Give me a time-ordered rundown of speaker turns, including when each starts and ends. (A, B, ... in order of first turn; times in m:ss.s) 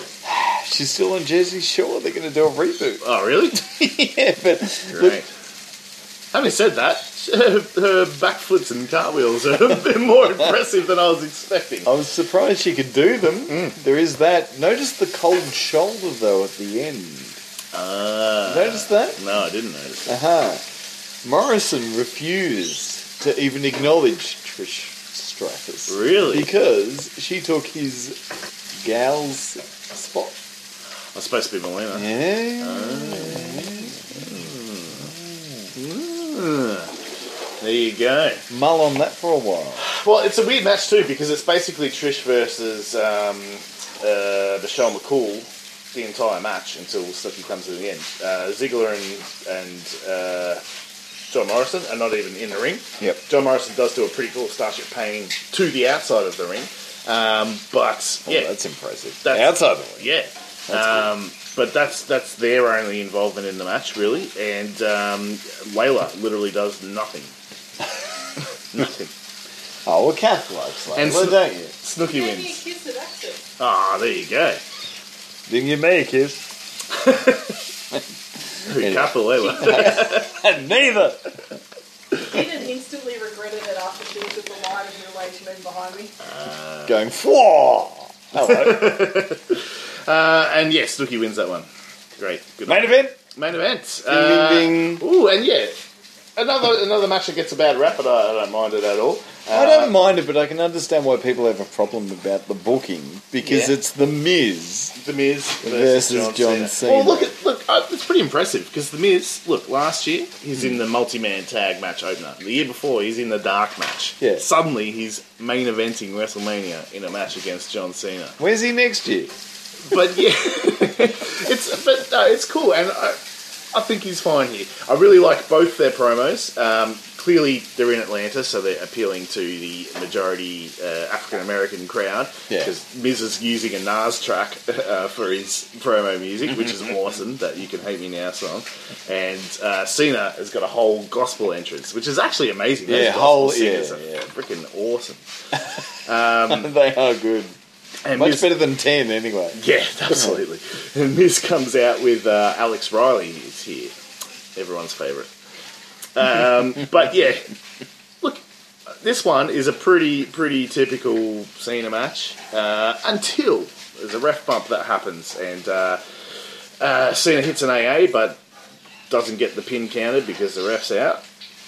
0:00.2-0:05.2 A
0:03.0-0:03.6 B
0:04.9-0:05.3 B
0:06.3-0:11.9 B
0:11.8-0:17.4 A
0:13.5-0:13.8 B
0:17.7-0:20.2 B
0:18.4-0:19.2 A
0:20.1-0:20.6 A
0:21.2-0:28.2 A
0:25.9-0:26.5 B
0:28.8-0:30.4 A
0:31.1-0:35.1 B
0:31.9-0:34.4 A
0:34.9-0:35.3 A
0:35.7-0:37.0 B
0:37.6-0:38.4 B
0:38.5-0:39.8 A
0:39.8-0:50.6 B
0:51.3-0:58.5 B
0:58.3-1:00.1 A
0:59.2-1:07.3 B
1:00.7-1:01.1 A
1:08.7-1:09.1 B
1:09.8-1:11.7 A
1:10.9-1:12.6 B
1:12.0-1:13.4 C
1:13.6-1:14.6 B
1:15.5-1:16.4 A
1:17.0-1:17.4 B
1:18.6-1:20.3 B
1:18.6-1:21.5 A
1:22.2-1:26.1 C
1:26.2-1:26.9 B
1:26.9-1:29.0 A
1:28.3-1:35.8 B
1:32.7-1:33.2 A
1:34.1-1:35.0 A
1:36.4-1:40.0 B
1:39.5-1:44.9 A
1:43.4-1:43.7 B
1:44.9-1:58.4 B
1:45.6-1:47.3 A
1:54.2-1:54.4 A
1:58.4-1:59.3 A
1:59.9-2:03.2 B
2:03.7-2:25.2 B
2:22.8-2:24.2 A
2:26.0-2:26.7 B
2:26.5-2:27.5 A
2:28.0-2:28.6 B
2:28.1-2:30.4 A
2:29.5-2:33.9 B
2:34.6-2:35.3 B
2:36.1-2:37.5 B
2:38.2-2:46.0 B
2:46.8-2:48.4 B
2:49.1-2:51.2 B